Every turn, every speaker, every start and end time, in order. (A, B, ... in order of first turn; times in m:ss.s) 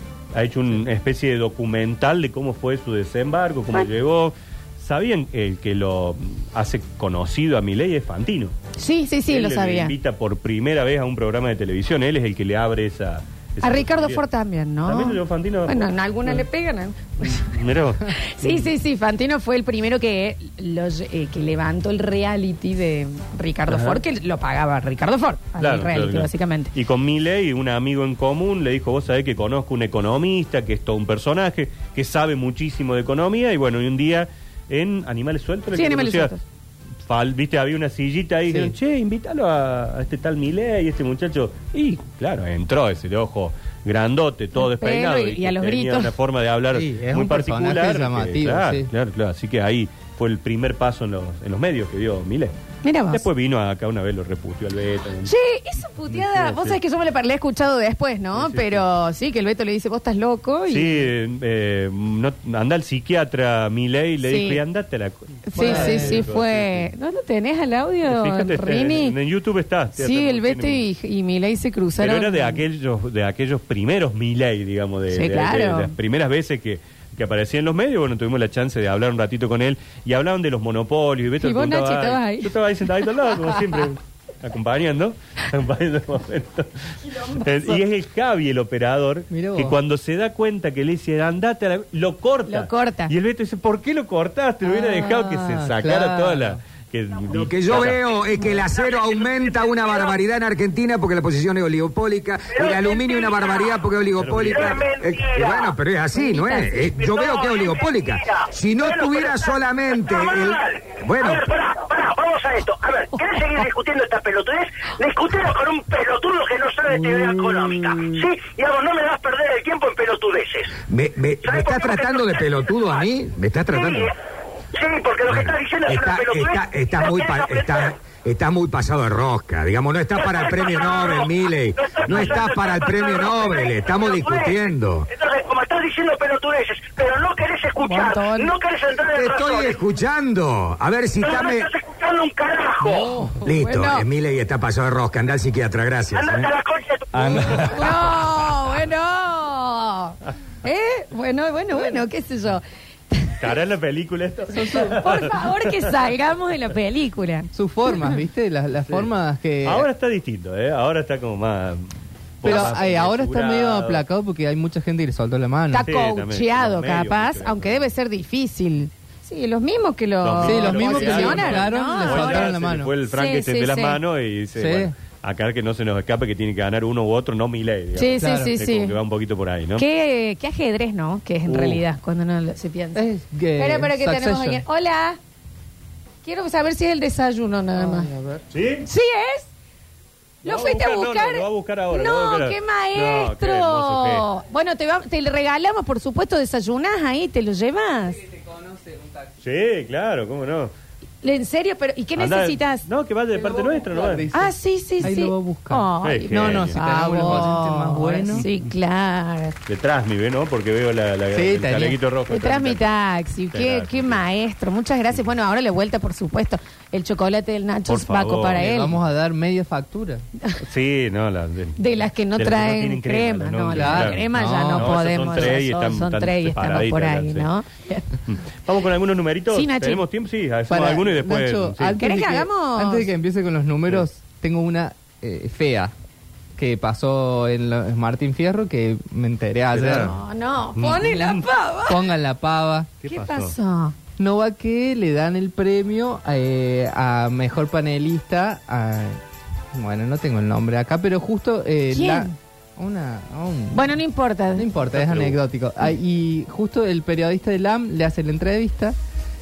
0:00.3-0:08.5 A
0:08.8-0:09.9 B
0:09.3-0:14.2 A
0:13.6-0:26.7 B
0:14.8-0:15.9 A
0:17.3-0:18.6 A
0:23.7-0:24.0 A
0:25.6-0:36.3 A
0:35.7-0:36.4 B
0:37.0-0:52.5 A
0:38.5-0:38.7 C
0:44.6-0:46.1 B
0:46.7-0:48.9 C
0:52.8-0:53.2 B
0:53.1-0:55.3 A
0:55.2-1:01.1 B
0:56.1-0:56.8 A
0:58.3-0:58.8 A
1:00.7-1:06.9 A
1:04.2-1:04.6 B
1:05.5-1:09.1 B
1:05.6-1:06.3 C
1:08.1-1:10.8 A
1:10.0-1:12.6 B
1:12.0-1:38.0 A
1:15.1-1:15.9 B
1:21.4-1:22.5 B
1:29.3-1:29.8 C
1:32.5-1:33.1 B
1:34.6-1:36.6 C
1:37.3-1:51.5 D
1:38.7-1:40.2 E
1:42.5-1:43.8 E
1:44.2-1:44.5 A
1:44.4-1:45.8 E
1:46.1-1:46.8 B
1:46.9-2:00.8 E
1:57.0-1:58.1 D
2:00.8-2:04.1 D
2:01.4-2:03.1 E
2:03.7-2:04.1 E
2:04.7-2:07.9 E
2:05.2-2:15.1 D
2:10.2-2:19.8 E
2:17.8-2:18.6 B
2:19.1-2:21.7 D
2:21.2-2:23.1 E
2:22.9-2:23.3 C
2:22.9-2:24.1 B
2:23.4-2:26.5 D
2:26.1-2:27.4 E
2:27.1-2:28.2 A
2:27.5-2:33.5 B
2:33.4-2:35.8 A
2:34.5-2:35.0 C
2:34.7-2:37.5 B
2:37.5-2:39.8 C
2:39.6-2:44.0 A
2:42.4-2:45.8 C
2:42.4-2:42.8 B
2:45.7-2:52.5 B
2:45.8-2:47.9 A
2:50.2-2:59.8 A
2:50.4-2:52.9 C
2:53.1-2:54.0 B
2:54.5-2:54.9 C
2:57.9-2:59.0 B
2:58.2-2:58.5 C
2:59.8-3:03.0 B
3:01.5-3:01.8 A
3:02.9-3:04.6 C
3:03.6-3:05.2 B
3:06.2-3:08.1 B
3:07.8-3:08.4 C
3:08.5-3:08.9 A
3:08.8-3:09.5 B
3:10.4-3:14.3 A
3:10.4-3:18.2 B
3:18.2-3:19.3 C
3:19.4-3:20.7 A
3:21.2-3:22.8 B
3:22.2-3:24.3 A
3:23.3-3:28.4 C
3:24.3-3:29.5 B
3:26.0-3:27.5 A
3:29.6-3:32.8 A
3:31.3-3:32.0 C
3:32.3-3:39.0 B
3:33.5-3:34.2 A
3:37.9-3:38.9 A
3:38.6-3:40.2 C
3:40.6-3:41.8 A
3:41.8-3:48.1 B
3:42.4-3:47.5 A
3:43.7-3:45.6 C
3:48.2-3:52.0 A
3:49.5-3:50.0 B
3:50.7-3:55.9 C
3:51.9-3:53.1 B
3:56.6-4:00.2 C
3:59.7-4:00.2 A
4:00.0-4:02.1 B
4:00.8-4:01.4 A
4:01.9-4:02.9 C
4:03.0-4:03.5 A
4:03.0-4:03.9 B
4:04.2-4:09.2 C
4:09.7-4:14.0 C
4:11.9-4:12.3 B
4:13.7-4:14.7 B
4:14.5-4:19.0 C
4:14.9-4:15.4 A